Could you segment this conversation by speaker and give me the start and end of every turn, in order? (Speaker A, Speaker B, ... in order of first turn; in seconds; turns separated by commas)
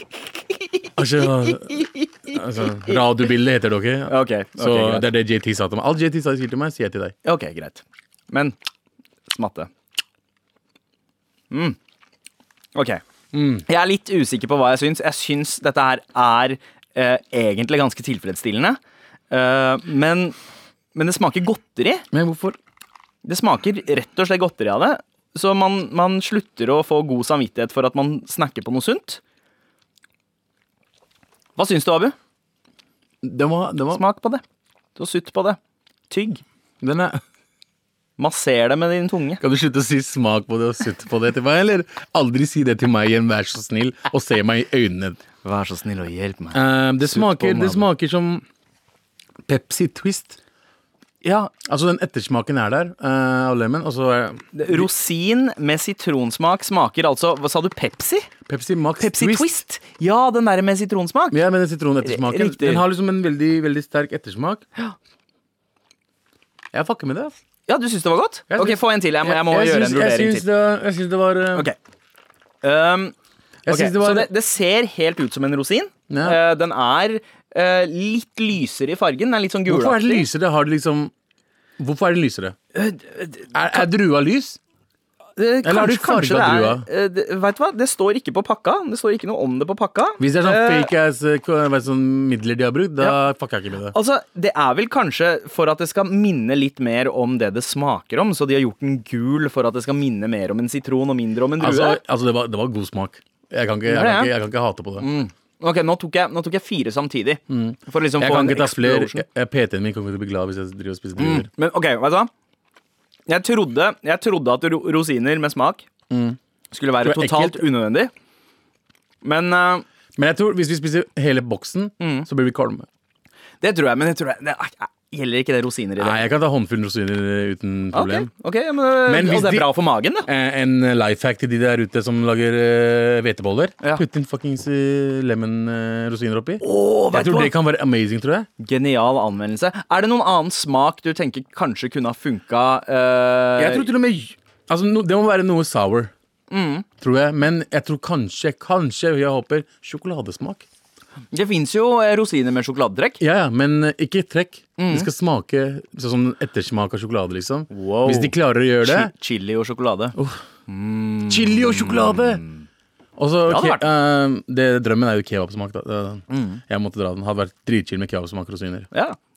Speaker A: 1.0-7.1, Speaker B: 1.2-3.0, Speaker B: 4.1-5.1, Speaker B: 7.2-8.5, Speaker B: 9.3-9.7, Speaker B: 11.5-11.8, Speaker B: 12.7-13.0, Speaker A: 13.3-13.6, Speaker B: 13.7-18.8, Speaker B: 19.3-20.4, Speaker B: 20.9-22.0, Speaker A: 22.1-22.6, Speaker B: 23.2-29.2, Speaker B: 31.6-32.1, Speaker A: 33.2-34.0, Speaker B: 33.9-34.4, Speaker B: 35.0-35.6, Speaker B: 36.1-36.4, Speaker A: 36.8-37.2, Speaker B: 38.2-39.4, Speaker A: 39.4-45.2, Speaker B: 45.4-47.9, Speaker A: 46.5-48.4, Speaker A: 49.5-50.4, Speaker B: 51.2-51.5, Speaker A: 51.6-54.9, Speaker B: 54.5-58.3, Speaker A: 58.5-59.5, Speaker B: 59.0-61.4, Speaker A: 61.3-64.6, Speaker B: 62.0-62.8, Speaker A: 66.7-67.3, Speaker B: 67.7-70.4, Speaker A: 68.5-71.7, Speaker B: 72.6-73.1, Speaker A: 73.7-74.3, Speaker B: 73.7-80.3, Speaker A: 76.1-76.4, Speaker A: 79.7-81.1, Speaker A: 81.8-82.5, Speaker B: 82.7-83.8, Speaker A: 83.5-84.6, Speaker B: 85.4-90.9, Speaker A: 85.6-86.8, Speaker A: 90.2-93.9, Speaker B: 93.9-102.0, Speaker A: 101.6-105.1, Speaker B: 103.9-104.3, Speaker B: 105.0-109.2, Speaker A: 107.5-111.5, Speaker B: 111.2-112.3, Speaker B: 113.3-115.8, Speaker A: 116.1-116.4, Speaker B: 116.7-118.1, Speaker A: 117.0-117.6, Speaker B: 119.2-119.8, Speaker A: 120.2-122.9, Speaker B: 122.0-122.3, Speaker B: 123.6-126.2, Speaker A: 126.0-128.3, Speaker B: 127.9-130.3, Speaker A: 129.1-129.7, Speaker A: 130.2-138.5, Speaker B: 136.6-137.5, Speaker B: 138.6-143.9, Speaker A: 143.6-146.1, Speaker B: 146.5-146.8, Speaker A: 147.0-150.6, Speaker B: 151.3-153.2, Speaker A: 153.2-159.1, Speaker B: 154.8-155.1, Speaker B: 157.7-160.1, Speaker A: 160.1-160.4, Speaker B: 160.7-162.7, Speaker A: 161.3-162.4, Speaker A: 163.2-168.9, Speaker B: 163.5-163.8, Speaker B: 166.3-166.6, Speaker B: 168.9-169.2